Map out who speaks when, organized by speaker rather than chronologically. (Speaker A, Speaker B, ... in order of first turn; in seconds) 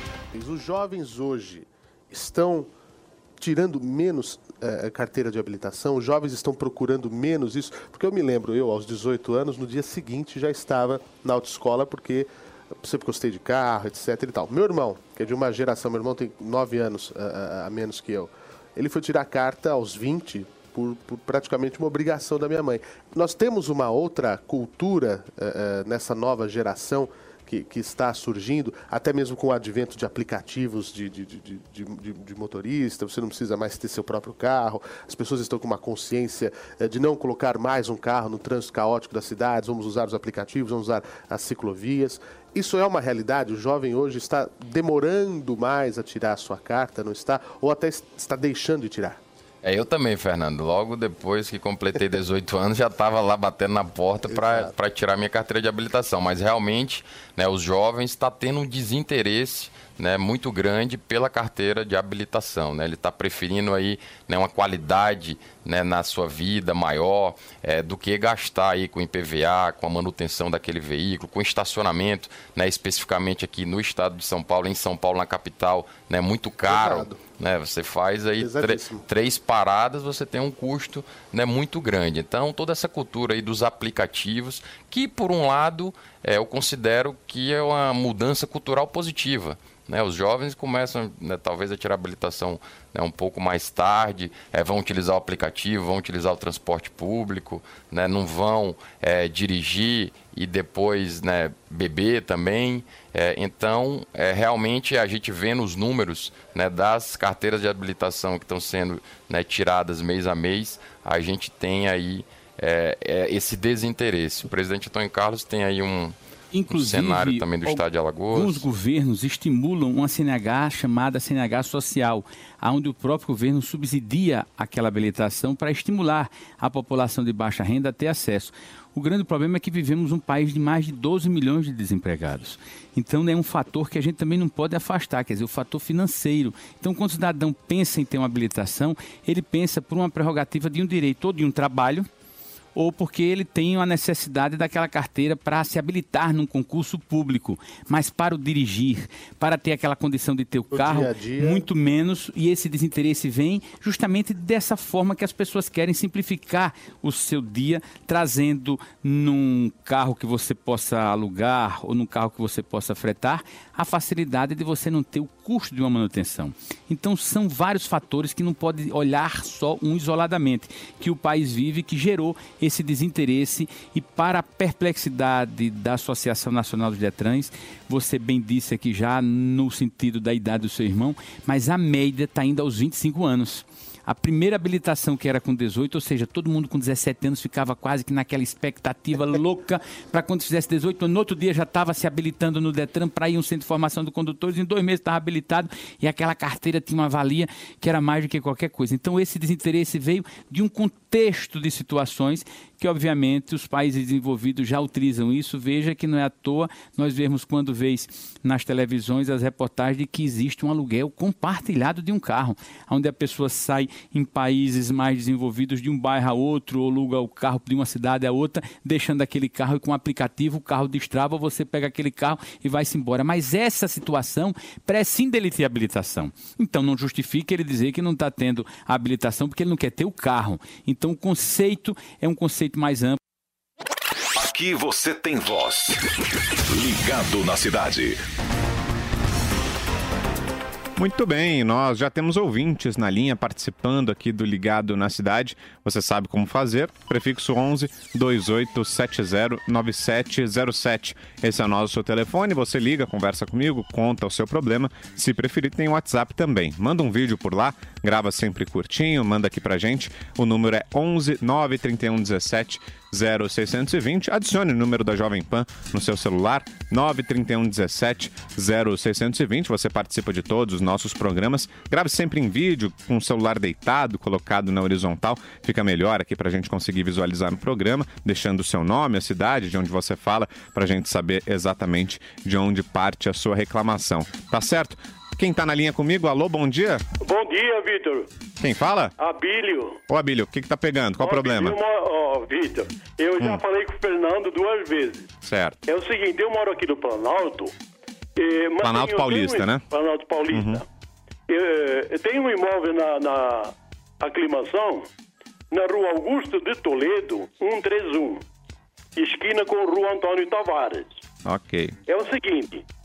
Speaker A: 0.3-2.7, 3.4-12.3, 12.8-49.2, 54.3-54.7, 76.7-77.2, 78.4-79.0, 150.7-151.7
Speaker B: 49.6-116.2, 116.7-118.7
Speaker C: 116.5-142.1, 142.8-233.2
Speaker D: 234.4-236.0, 236.7-238.2
Speaker E: 241.0-287.0, 288.6-289.1, 290.1-291.8, 295.4-295.8, 298.8-299.8, 300.5-300.8, 311.4-312.0
Speaker F: 287.2-288.3, 289.2-290.0, 291.2-295.3, 295.9-297.7, 298.4-300.9, 301.5-305.1, 305.7-308.4, 309.2-311.2, 312.1-312.9